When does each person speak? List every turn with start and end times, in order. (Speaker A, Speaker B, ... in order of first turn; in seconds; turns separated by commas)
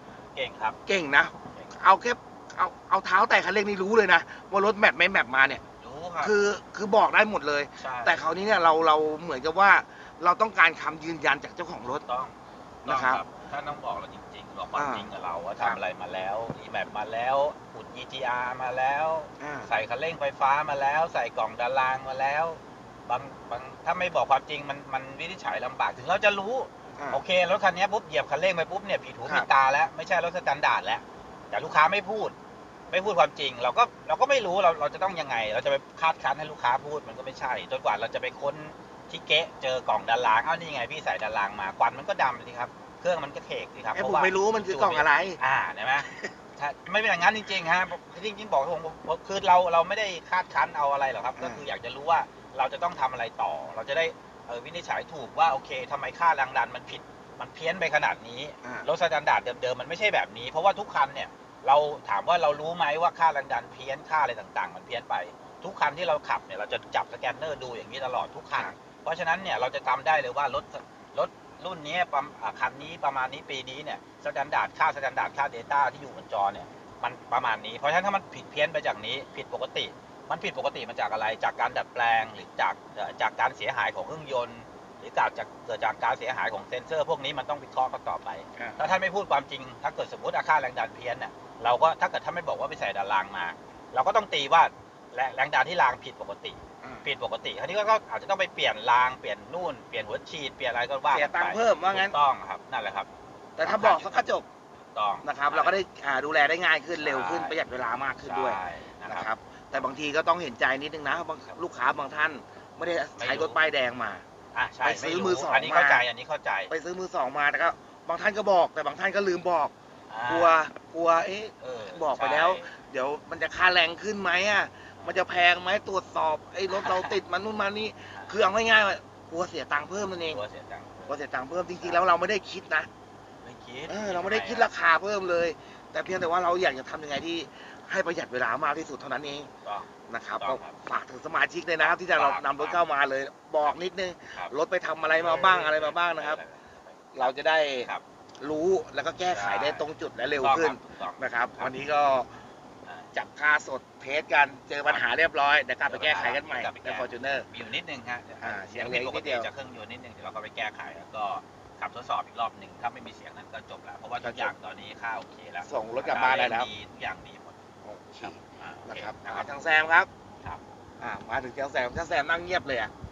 Speaker A: 0.3-0.8, Speaker B: 0.9-5.6, Speaker A: 1.5-1.8, Speaker A: 5.8-6.3, Speaker B: 6.2-12.0, Speaker A: 7.8-8.3, Speaker A: 11.8-32.4, Speaker B: 12.8-13.2, Speaker B: 14.7-15.8, Speaker B: 19.4-19.7, Speaker A: 32.9-104.3, Speaker B: 43.9-45.4, Speaker B: 46.0-46.3, Speaker B: 51.4-51.6, Speaker B: 88.5-89.0, Speaker B: 96.8-97.1, Speaker B: 101.1-102.2, Speaker B: 103.6-104.5, Speaker A: 104.9-105.8, Speaker B: 105.2-114.2, Speaker A: 107.0-107.6, Speaker A: 108.2-109.9, Speaker A: 113.2-113.6, Speaker A: 114.5-116.7, Speaker B: 114.8-116.0, Speaker B: 116.7-119.7, Speaker A: 120.1-120.5, Speaker B: 120.3-130.4, Speaker A: 121.6-122.7, Speaker A: 126.7-127.2, Speaker A: 128.1-128.4, Speaker A: 130.2-131.2, Speaker B: 131.1-132.9, Speaker A: 131.7-132.1, Speaker A: 133.4-134.7, Speaker B: 133.9-139.5, Speaker A: 139.6-140.8, Speaker B: 140.1-146.4, Speaker A: 141.8-142.8, Speaker A: 145.1-148.0, Speaker B: 147.1-152.3, Speaker A: 149.3-151.7, Speaker A: 152.8-153.1, Speaker B: 153.1-157.4, Speaker A: 155.8-167.6, Speaker B: 158.4-159.5, Speaker B: 164.2-164.5, Speaker B: 165.6-166.7, Speaker B: 167.8-170.1, Speaker A: 168.2-169.5, Speaker B: 171.0-172.9